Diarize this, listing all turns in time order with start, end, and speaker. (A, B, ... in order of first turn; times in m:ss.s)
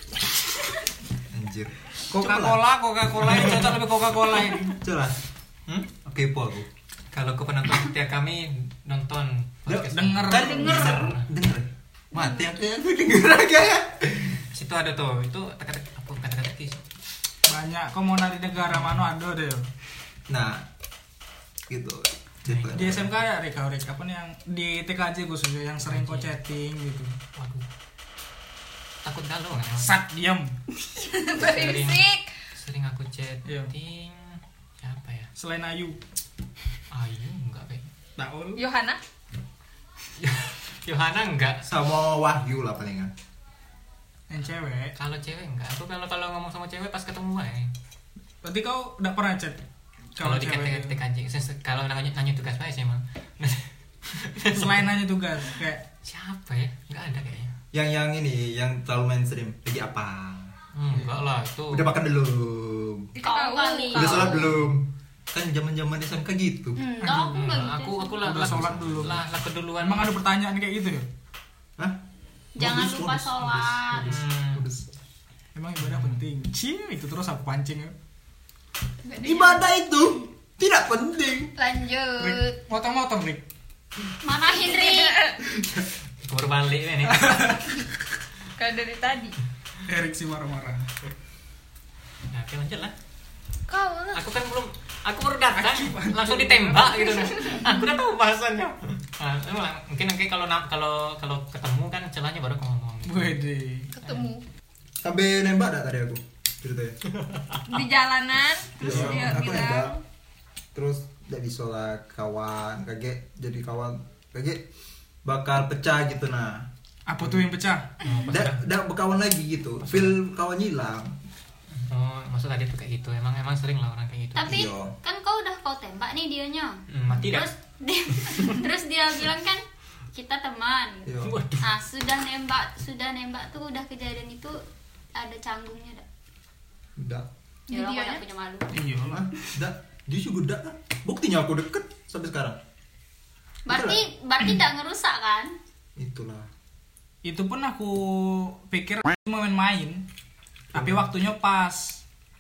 0:01.3-0:02.6 A
0:02.1-0:04.8 B
0:03.2-0:03.7 A
0:04.7-0:05.2 A
0:05.9-0:06.7 A
0:07.1-0:11.3 C
0:09.7-0:14.4 A
0:09.8-0:11.1 B
0:14.5-0:16.8 C
0:17.5-0:19.7 B
0:18.7-0:19.0 C
0:20.3-0:20.6 A
0:21.7-0:23.1 A
0:22.5-0:22.8 C
0:22.7-0:27.2 B
0:25.8-0:26.3 C
0:27.4-0:27.6 C
0:29.0-0:30.0 C
0:29.8-0:30.6 B
0:30.9-0:32.3 D
0:31.3-0:32.0 C
0:32.6-0:35.3 C
0:33.5-0:33.7 B
0:35.4-0:36.0 B
0:36.9-0:37.8 C
0:38.2-0:38.6 B
0:38.6-0:39.0 D
0:40.2-0:41.7 C
0:41.6-0:43.1 A
0:44.3-0:45.0 B
0:45.0-0:47.7 C
0:48.4-0:49.6 B
0:50.2-0:51.0 B
0:50.2-0:54.8 C
0:54.4-0:55.8 B
0:56.0-0:57.5 C
0:57.7-1:00.5 A
1:00.7-1:02.0 C
1:01.7-1:03.1 A
1:03.2-1:04.5 D
1:03.2-1:04.5 E
1:03.9-1:06.8 A
1:06.8-1:08.2 E
1:07.0-1:10.2 C
1:08.2-1:09.2 B
1:08.3-1:09.2 A
1:09.8-1:11.1 B
1:12.6-1:14.1 E
1:12.6-1:14.9 A
1:14.0-1:14.7 C
1:15.6-1:18.0 B
1:15.8-1:16.2 C
1:19.0-1:19.7 D
1:19.2-1:21.5 A
1:21.6-1:21.9 E
1:21.7-1:22.3 D
1:22.2-1:23.5 B
1:24.2-1:25.2 E
1:24.5-1:25.4 D
1:26.2-1:27.6 C
1:27.1-1:27.8 B
1:28.6-1:29.4 D
1:29.8-1:30.9 B
1:32.3-1:32.9 C
1:33.7-1:34.2 D
1:34.1-1:43.4 C
1:35.5-1:37.2 B
1:37.1-1:37.7 D
1:43.0-1:43.9 B
1:43.9-1:44.4 D
1:44.0-1:44.3 C
1:45.0-1:47.0 A
1:47.2-1:47.6 C
1:47.7-1:50.0 D
1:48.8-1:49.9 A
1:48.9-1:49.2 B
1:50.7-1:54.6 A
1:55.2-1:56.7 A
1:57.1-1:57.9 B
1:58.0-1:58.6 C
1:58.3-2:01.2 A
1:59.8-2:00.2 C
2:01.8-2:04.6 C
2:04.4-2:09.6 E
2:04.4-2:04.9 A
2:06.9-2:07.5 C
2:10.1-2:11.1 E
2:11.0-2:11.4 A
2:11.2-2:11.6 C
2:11.6-2:14.6 E
2:15.1-2:16.0 E
2:17.0-2:17.3 A
2:17.7-2:18.2 D
2:17.7-2:18.8 E
2:18.7-2:19.3 B
2:19.1-2:22.6 A
2:23.7-2:25.6 E
2:23.7-2:24.0 A
2:26.0-2:26.5 A
2:27.2-2:30.0 B
2:30.7-2:32.0 B
2:30.8-2:31.0 A